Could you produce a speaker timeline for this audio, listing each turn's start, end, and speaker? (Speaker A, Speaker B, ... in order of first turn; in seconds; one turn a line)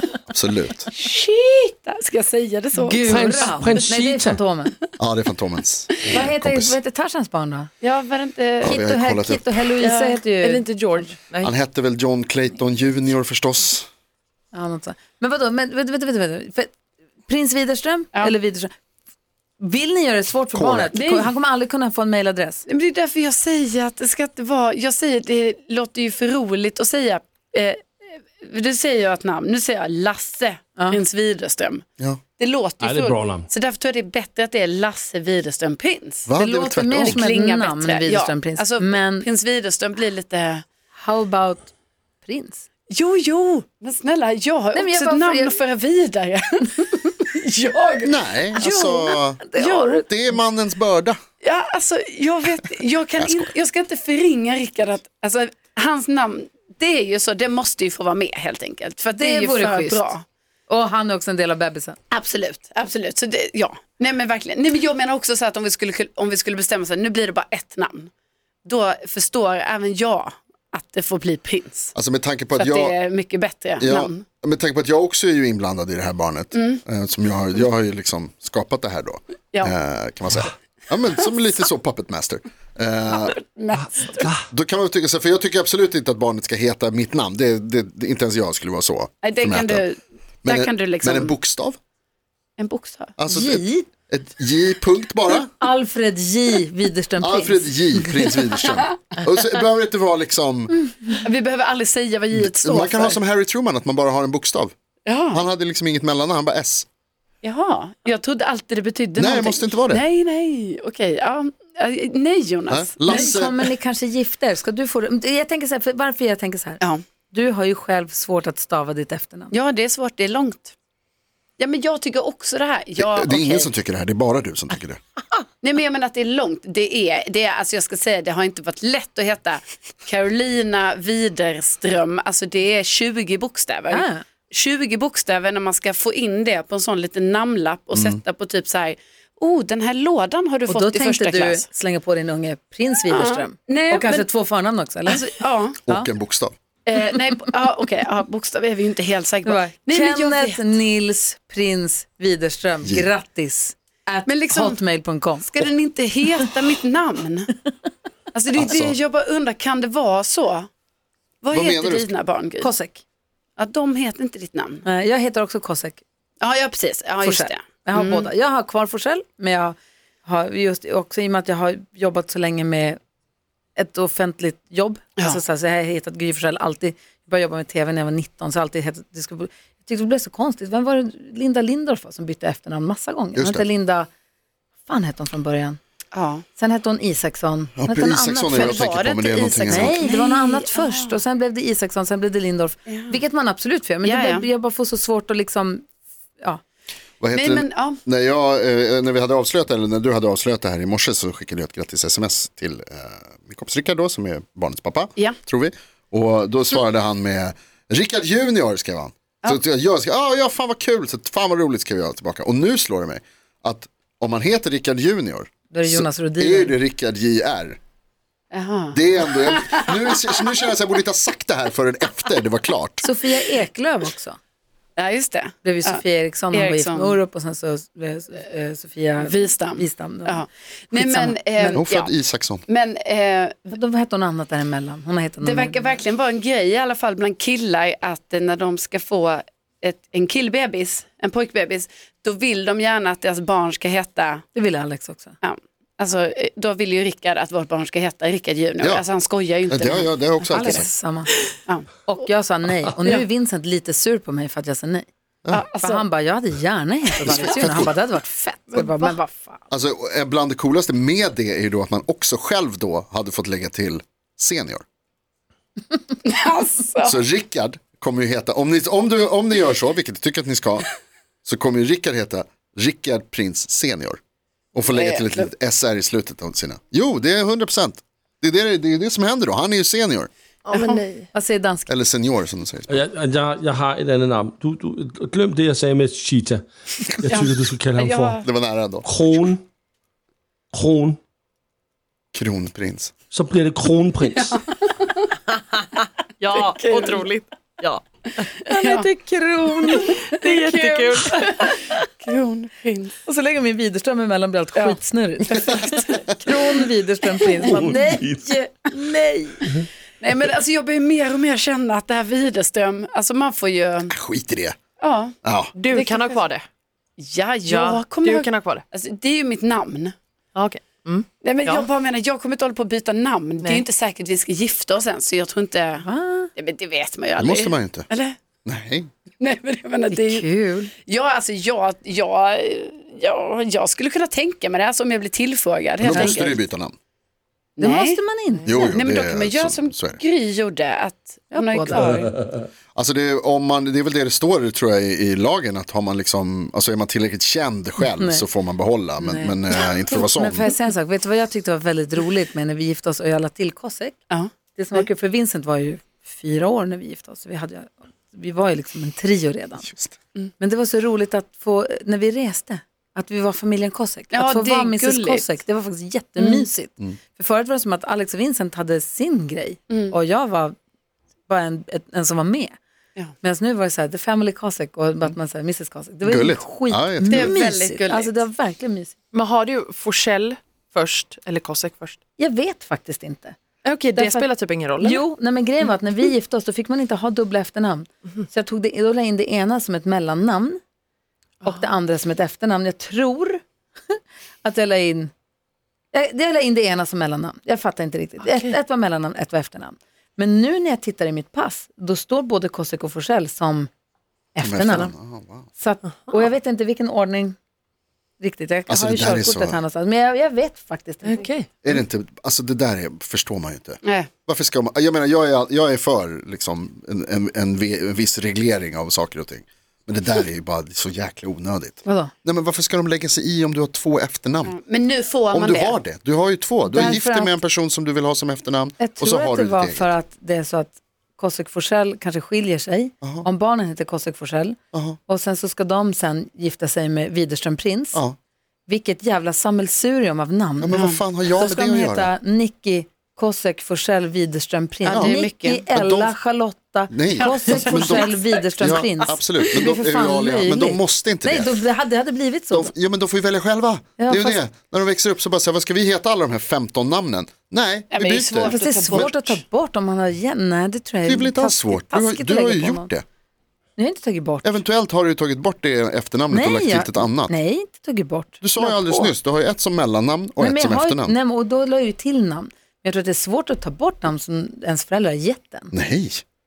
Speaker A: 0.3-0.9
Speaker B: 0.9-3.6
Speaker C: 2.8-4.7
Speaker D: 3.0-4.4
Speaker A: 5.0-6.8
Speaker C: 6.1-7.7
Speaker B: 7.8-8.8
Speaker A: 8.6-9.6
Speaker C: 8.6-11.1
Speaker B: 9.8-10.2
Speaker E: 10.3-11.5
Speaker A: 11.4-13.9
Speaker C: 14.5-16.7
Speaker C: 17.3-18.7
Speaker C: 19.6-22.6
Speaker A: 20.5-20.9
Speaker B: 20.9-21.3
Speaker B: 22.7-31.8
Speaker B: 32.4-36.3
Speaker D: 32.8-33.5
Speaker A: 36.3-37.2
Speaker C: 36.4-39.3
Speaker B: 37.0-40.6
Speaker C: 41.0-41.7
Speaker C: 42.2-42.7
Speaker B: 42.9-50.1
Speaker C: 44.7-45.6
Speaker A: 48.0-49.4
Speaker C: 49.4-50.1
Speaker A: 50.1-51.2
Speaker B: 51.4-60.2
Speaker A: 53.2-53.5
Speaker C: 59.1-60.1
Speaker C: 60.7-62.0
Speaker B: 62.1-68.1
Speaker B: 68.7-71.9
Speaker A: 72.0-73.0
Speaker B: 72.6-74.2
Speaker A: 73.8-83.3
Speaker B: 76.5-76.8
Speaker B: 83.1-84.3
Speaker A: 84.5-89.8
Speaker B: 89.2-91.3
Speaker A: 90.4-91.8
Speaker B: 92.6-93.1
Speaker A: 93.2-95.5
Speaker C: 93.3-93.9
Speaker C: 95.6-97.8
Speaker A: 97.2-100.8
Speaker B: 101.2-103.2
Speaker A: 102.3-104.7
Speaker B: 105.1-105.5
Speaker A: 105.3-106.9
Speaker B: 107.4-113.4
Speaker A: 109.2-110.0
Speaker A: 112.7-113.7
Speaker C: 113.0-119.5
Speaker B: 119.5-120.7
Speaker B: 121.6-123.7
Speaker A: 123.0-125.0
Speaker B: 125.6-141.7
Speaker C: 133.9-134.2
Speaker C: 140.7-145.3
Speaker B: 143.1-144.3
Speaker B: 145.1-145.8
Speaker A: 145.9-146.6
Speaker B: 146.9-150.7
Speaker C: 149.4-155.7
Speaker B: 154.3-154.8
Speaker B: 155.5-157.5
Speaker B: 158.3-160.7
Speaker A: 158.6-159.0
Speaker B: 161.4-162.7
Speaker A: 161.5-162.1
Speaker C: 162.6-163.0
Speaker B: 163.6-164.8
Speaker C: 164.8-166.0
Speaker B: 166.4-168.3
Speaker C: 167.2-173.0
Speaker C: 173.8-184.1
Speaker A: 183.3-183.7
Speaker C: 184.9-185.8
Speaker B: 186.1-186.4
Speaker C: 186.6-188.9
Speaker A: 187.8-190.0
Speaker B: 188.5-191.1
Speaker C: 189.7-195.9
Speaker B: 192.9-193.2
Speaker B: 194.0-194.5
Speaker A: 197.2-217.8
Speaker B: 197.3-198.0
Speaker C: 215.7-216.7
Speaker B: 218.5-219.9
Speaker A: 218.9-223.1
Speaker C: 223.0-224.4
Speaker B: 225.0-226.0
Speaker C: 225.6-231.8
Speaker B: 226.5-227.2
Speaker B: 229.2-232.1
Speaker A: 231.7-232.6
Speaker B: 232.7-233.7
Speaker C: 233.7-236.0
Speaker B: 235.4-244.4
Speaker C: 244.6-245.4
Speaker B: 245.4-250.9
Speaker A: 249.7-250.9
Speaker C: 250.4-251.3
Speaker B: 251.7-252.2
Speaker C: 252.1-255.1
Speaker B: 255.5-256.1
Speaker C: 255.8-259.6
Speaker A: 257.2-257.9
Speaker B: 257.2-257.7
Speaker A: 259.7-264.8
Speaker B: 266.2-267.2
Speaker A: 267.0-270.9
Speaker A: 271.5-274.2
Speaker A: 274.7-280.3
Speaker B: 274.9-275.5
Speaker E: 280.7-281.3
Speaker B: 280.7-281.1
Speaker C: 281.3-281.9
Speaker A: 281.9-283.0
Speaker D: 282.9-288.4
Speaker B: 287.3-288.4
Speaker A: 288.4-289.4
Speaker D: 289.0-289.6
Speaker D: 290.7-291.2
Speaker A: 292.3-293.1
Speaker D: 293.3-294.6
Speaker B: 294.4-295.3
Speaker E: 296.4-298.0
Speaker B: 296.5-297.3
Speaker C: 298.7-300.2
Speaker B: 298.7-299.0
Speaker B: 299.9-303.1
Speaker E: 300.2-301.6
Speaker C: 301.1-301.7
Speaker C: 303.3-309.7
Speaker B: 305.6-306.9
Speaker B: 307.4-308.0
Speaker D: 307.7-308.2
Speaker B: 310.2-314.1
Speaker A: 314.1-314.8
Speaker B: 315.0-315.4
Speaker A: 315.4-315.7
Speaker E: 315.8-316.6
Speaker B: 315.9-316.5
Speaker B: 317.2-320.1
Speaker E: 317.6-318.8
Speaker E: 320.6-321.9
Speaker B: 321.4-326.1
Speaker C: 326.0-326.5
Speaker B: 326.6-328.4
Speaker A: 327.4-328.1
Speaker A: 328.6-329.1
Speaker B: 329.4-330.4
Speaker C: 330.1-330.9
Speaker B: 331.1-336.6
Speaker A: 336.0-336.9
Speaker B: 337.8-338.2
Speaker C: 337.8-339.0
Speaker A: 338.6-340.2
Speaker B: 338.9-342.3
Speaker C: 341.6-342.2
Speaker A: 342.9-350.7
Speaker C: 348.0-348.4
Speaker C: 349.2-354.2
Speaker B: 354.3-355.1
Speaker C: 354.8-359.9
Speaker C: 360.6-370.8
Speaker B: 364.3-365.5
Speaker B: 366.4-366.6
Speaker C: 371.5-372.8
Speaker C: 373.4-379.1
Speaker A: 376.2-377.6
Speaker B: 377.3-378.4
Speaker E: 379.3-382.2
Speaker C: 382.4-383.6
Speaker E: 383.9-385.2
Speaker C: 384.1-384.5
Speaker C: 385.0-390.8
Speaker C: 391.6-393.6
Speaker C: 394.6-395.3
Speaker C: 396.1-403.9
Speaker E: 398.4-398.8
Speaker C: 404.6-405.1
Speaker A: 404.6-405.7
Speaker C: 405.8-407.6
Speaker C: 408.4-411.5
Speaker A: 408.9-409.8
Speaker E: 411.2-411.7
Speaker A: 411.8-424.8
Speaker B: 414.0-414.3
Speaker C: 422.1-422.3
Speaker B: 424.6-426.0
Speaker A: 425.5-430.1
Speaker C: 426.9-427.5
Speaker C: 429.0-438.2
Speaker A: 433.2-433.5
Speaker A: 434.9-435.2
Speaker C: 438.9-452.9
Speaker A: 440.8-442.3
Speaker B: 440.9-441.2
Speaker B: 445.1-445.8
Speaker A: 445.1-446.4
Speaker A: 447.1-451.8
Speaker B: 447.8-448.2
Speaker A: 452.7-459.6
Speaker C: 454.2-454.6
Speaker B: 458.1-459.6
Speaker C: 458.6-463.1
Speaker A: 461.2-463.2
Speaker C: 464.0-464.8
Speaker A: 464.6-467.6
Speaker C: 466.5-469.3
Speaker A: 468.6-471.4
Speaker C: 470.6-475.9
Speaker A: 475.9-476.4